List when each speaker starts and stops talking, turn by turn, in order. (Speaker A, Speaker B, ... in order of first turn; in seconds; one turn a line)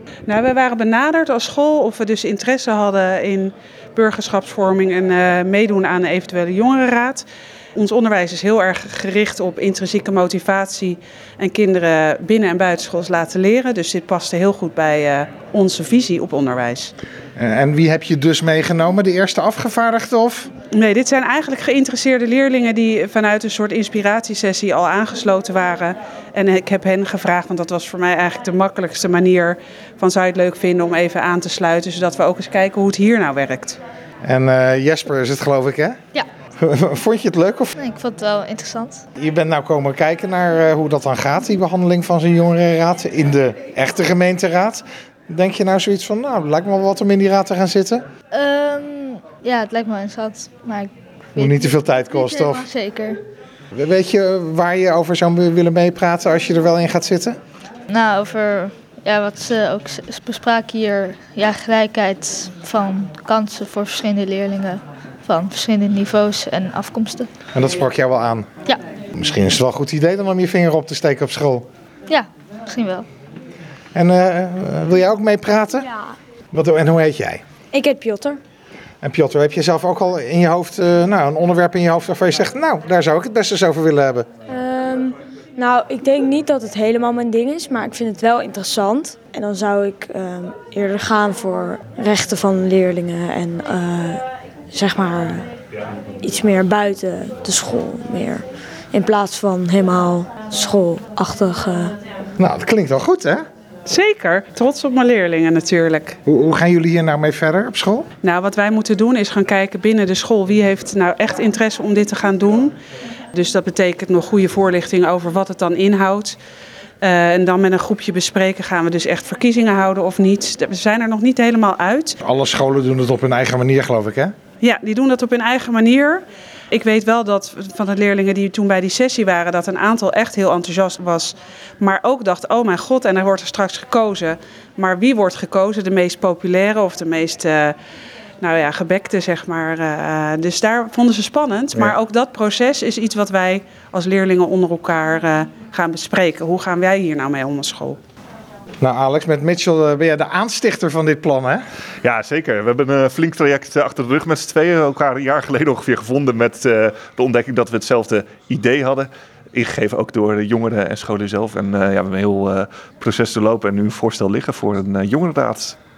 Speaker A: 0.3-16.9
Speaker B: 17.4-20.5
Speaker A: 20.7-33.8
Speaker B: 34.2-36.0
Speaker B: 36.6-37.8
Speaker C: 37.8-39.0
Speaker B: 39.2-48.0
Speaker C: 48.3-53.2
Speaker B: 51.4-52.6
Speaker B: 53.7-57.4
Speaker C: 57.9-67.3
Speaker B: 67.5-68.5
Speaker B: 69.2-71.7
Speaker C: 72.1-73.0
Speaker B: 73.9-75.9
Speaker B: 76.5-77.4
Speaker D: 77.7-78.4
Speaker B: 79.0-84.3
Speaker D: 84.5-95.5
Speaker D: 96.2-101.9
Speaker B: 102.4-103.4
Speaker A: 103.8-106.2
Speaker B: 106.2-108.1
Speaker A: 108.2-112.7
Speaker A: 113.3-116.4
Speaker A: 117.0-122.2
Speaker B: 122.2-124.3
Speaker A: 124.6-137.7
Speaker A: 138.4-148.0
Speaker B: 148.8-151.6
Speaker E: 152.0-165.8